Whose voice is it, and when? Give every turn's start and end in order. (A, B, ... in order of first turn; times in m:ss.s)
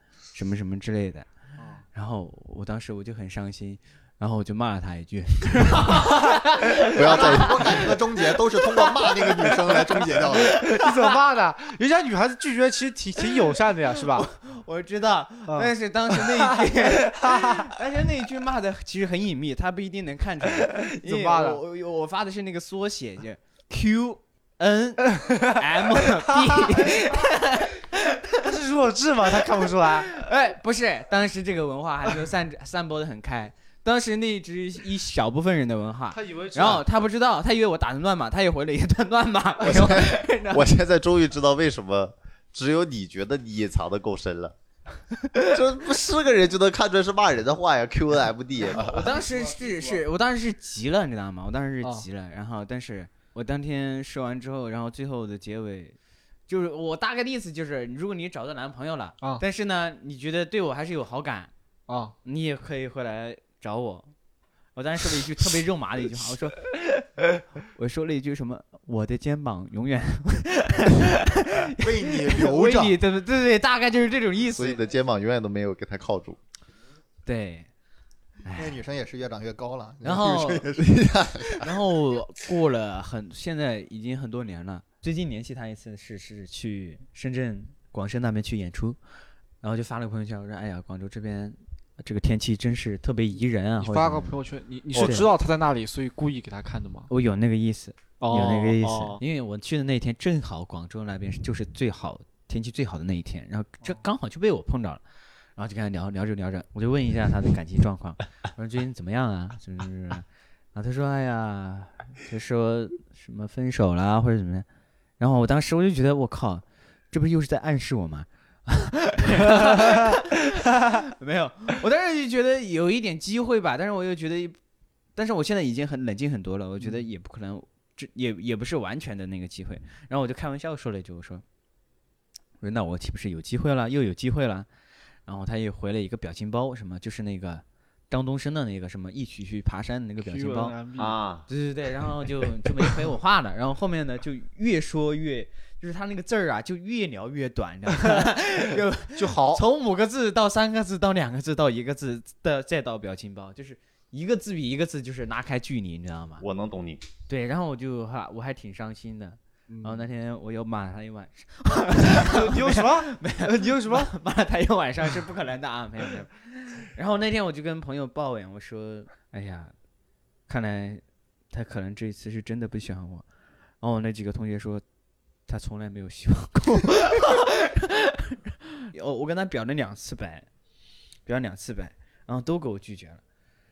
0:00.3-0:01.3 A
0:01.6-0:01.8 B
0:01.9-0:07.9 A
0:06.9-0:07.9 C
0:07.0-0:10.6 D
0:09.3-0:10.4 A
0:10.5-0:14.3 B
0:13.9-0:28.5 A
0:15.5-0:17.7 B
0:21.0-0:21.6 B
0:25.2-0:25.5 B
0:28.4-0:30.1 B
0:29.6-0:40.7 A
0:36.1-0:36.8 B
0:39.6-0:44.5 C
0:45.3-0:49.1 C
0:48.6-0:56.0 A
0:49.0-0:50.0 B
0:56.5-1:01.5 A
1:01.9-1:02.2 B
1:02.2-1:04.1 A
1:04.8-1:06.8 A
1:07.7-1:14.8 A
1:11.8-1:13.0 D
1:14.6-1:16.4 C
1:17.3-1:17.7 A
1:18.4-1:18.8 A
1:18.5-1:21.7 D
1:20.0-1:20.8 A
1:21.5-1:29.0 A
1:29.6-1:34.4 A
1:33.8-1:37.1 B
1:34.9-1:35.3 A
1:37.1-1:45.0 A
1:38.2-1:39.2 B
1:45.6-1:54.7 A
1:55.2-2:04.6 A
1:59.6-2:00.1 B
2:05.2-2:11.4 A
2:12.6-2:14.7 A
2:15.3-2:20.8 A
2:20.2-2:21.2 B
2:21.0-2:21.5 C
2:21.5-2:36.4 A
2:29.2-2:29.6 B
2:36.4-2:37.0 C
2:37.3-2:49.7 A
2:39.7-2:40.1 B
2:42.1-2:44.1 B
2:50.5-2:53.2 A
2:53.8-2:54.8 A
2:55.5-3:00.5 A
3:01.3-3:03.2 A